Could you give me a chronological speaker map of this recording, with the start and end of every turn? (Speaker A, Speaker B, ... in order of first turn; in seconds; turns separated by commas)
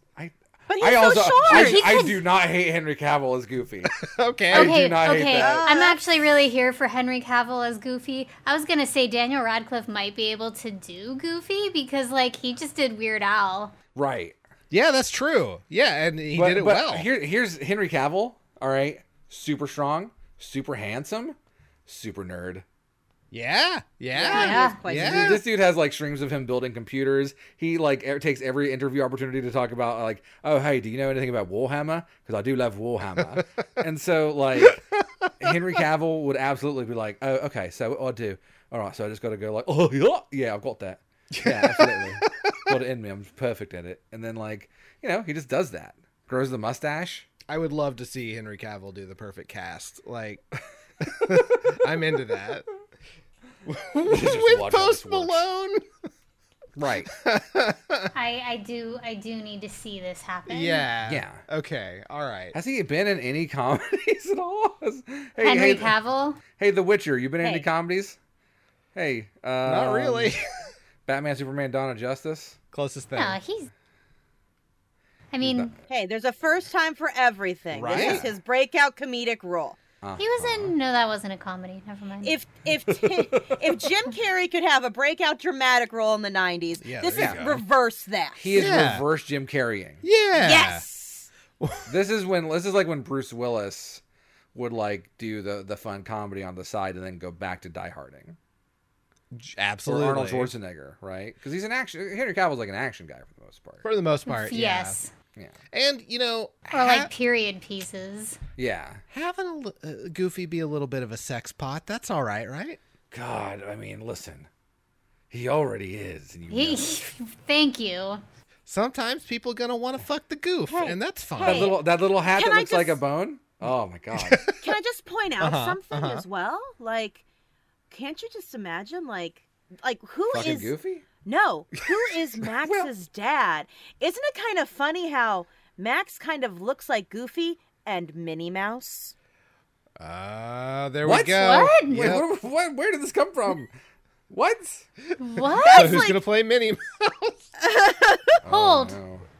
Speaker A: 0.1-5.7, Speaker B: 0.7-2.1, Speaker C: 1.4-2.2, Speaker D: 3.8-4.8, Speaker C: 4.5-13.7, Speaker B: 5.3-6.0, Speaker A: 13.9-14.4, Speaker D: 14.7-17.1, Speaker A: 16.3-22.6, Speaker D: 23.3-25.4, Speaker B: 24.1-25.4, Speaker C: 24.3-24.8, Speaker A: 24.9-34.8, Speaker D: 34.6-35.6, Speaker A: 35.4-47.3, Speaker D: 41.3-42.7, Speaker D: 47.5-50.4, Speaker D: 51.0-52.6, Speaker A: 51.3-51.7, Speaker D: 53.6-55.8, Speaker A: 54.0-55.4, Speaker A: 56.8-57.1, Speaker D: 57.1-58.1, Speaker C: 58.1-60.9, Speaker D: 60.5-62.5, Speaker A: 61.1-61.4, Speaker A: 62.5-65.9, Speaker C: 65.4-66.4, Speaker A: 66.5-68.2, Speaker B: 67.4-67.7, Speaker A: 69.0-70.3, Speaker D: 69.6-70.5, Speaker A: 71.0-72.6, Speaker D: 72.7-73.4, Speaker C: 73.2-73.7, Speaker C: 75.3-75.7, Speaker A: 75.4-75.7, Speaker B: 75.9-79.8, Speaker D: 77.7-78.3, Speaker A: 77.9-78.3, Speaker A: 80.0-80.7, Speaker C: 80.2-82.4, Speaker B: 82.2-88.7, Speaker A: 82.9-83.7, Speaker D: 86.8-87.6, Speaker A: 87.1-87.5, Speaker A: 88.4-90.0, Speaker D: 88.5-89.0, Speaker D: 90.0-90.8, Speaker B: 90.4-91.3, Speaker D: 91.6-91.9, Speaker A: 91.9-94.0, Speaker A: 94.5-98.4, Speaker D: 99.3-100.5, Speaker A: 99.8-103.8, Speaker D: 103.8-105.0, Speaker C: 104.3-105.1, Speaker D: 105.7-107.1, Speaker C: 106.7-108.4, Speaker A: 108.6-109.0, Speaker D: 109.1-112.8, Speaker A: 113.1-114.5, Speaker A: 115.3-116.8, Speaker C: 116.5-118.2, Speaker D: 118.7-121.7, Speaker B: 120.7-123.0, Speaker A: 121.4-124.5, Speaker D: 124.1-124.7, Speaker B: 124.6-127.2, Speaker D: 125.4-126.3, Speaker B: 127.9-130.7, Speaker A: 130.3-131.1, Speaker B: 131.2-139.1, Speaker A: 132.6-132.9, Speaker D: 140.0-142.3, Speaker A: 141.0-143.7, Speaker C: 141.4-142.0, Speaker A: 144.3-144.9, Speaker C: 145.2-146.0, Speaker D: 145.5-147.5, Speaker B: 145.6-146.2, Speaker B: 147.6-148.4, Speaker A: 148.4-149.3, Speaker C: 148.4-149.0